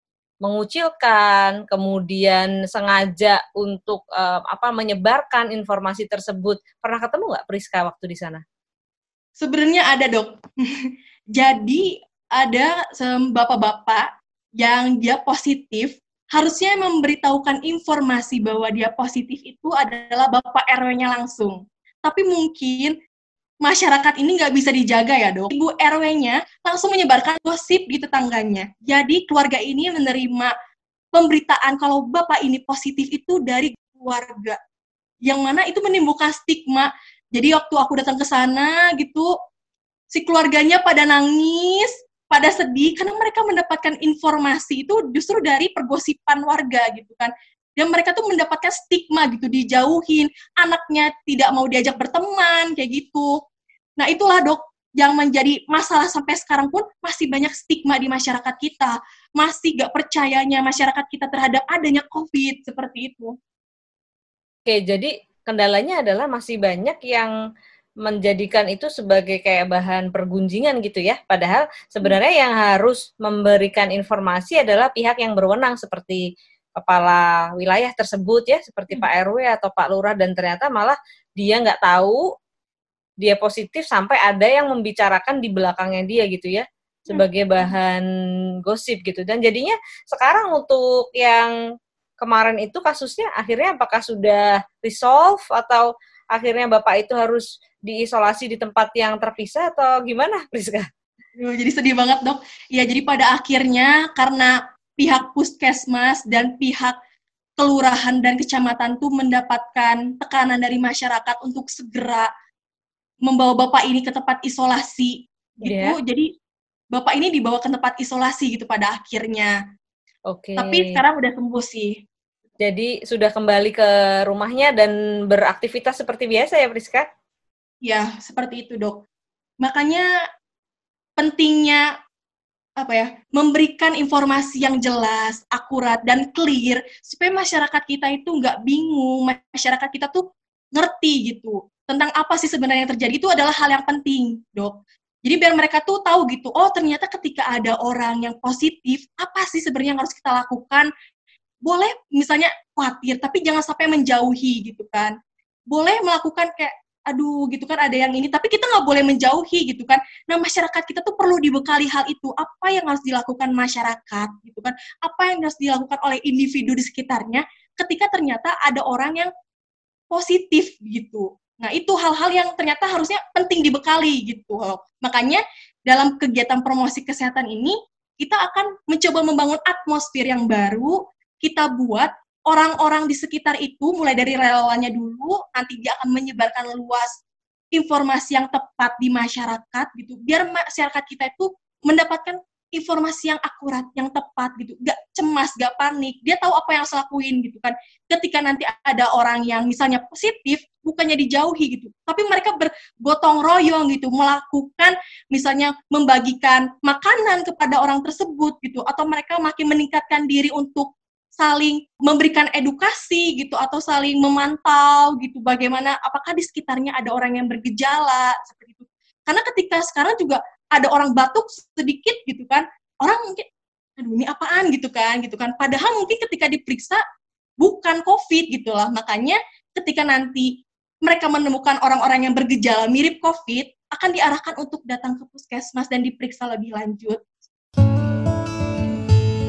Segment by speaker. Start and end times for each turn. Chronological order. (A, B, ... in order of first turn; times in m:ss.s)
0:00.4-0:08.4 A
0:09.4-0:10.4 B
0:11.3-0:14.0 B
0:14.6-0:23.0 B
0:23.6-0:30.5 B
0:31.1-0:34.6 B
0:35.2-0:39.3 B
0:40.1-0:53.4 B
0:54.0-1:03.3 B
1:04.6-1:07.3 A
1:08.0-1:16.2 A
1:16.8-1:22.2 A
1:23.2-1:28.0 A
1:27.1-1:27.7 B
1:28.6-1:31.5 A
1:32.2-1:40.8 A
1:41.4-1:46.9 B
1:47.6-1:52.3 B
1:53.2-1:56.3 B
1:55.6-1:56.0 A
1:56.9-1:59.5 B
2:00.3-2:01.0 A
2:00.6-2:02.0 B
2:02.6-2:07.0 A
2:07.8-2:09.0 B
2:09.6-2:10.0 B
2:11.2-2:11.8 B
2:12.8-2:20.2 B
2:20.7-2:30.9 B
2:31.6-2:35.1 B
2:35.7-2:49.3 B
2:50.1-3:07.2 B
3:07.7-3:43.4 B
3:44.0-3:47.0 B
3:47.6-3:50.5 B
3:51.0-3:57.4 B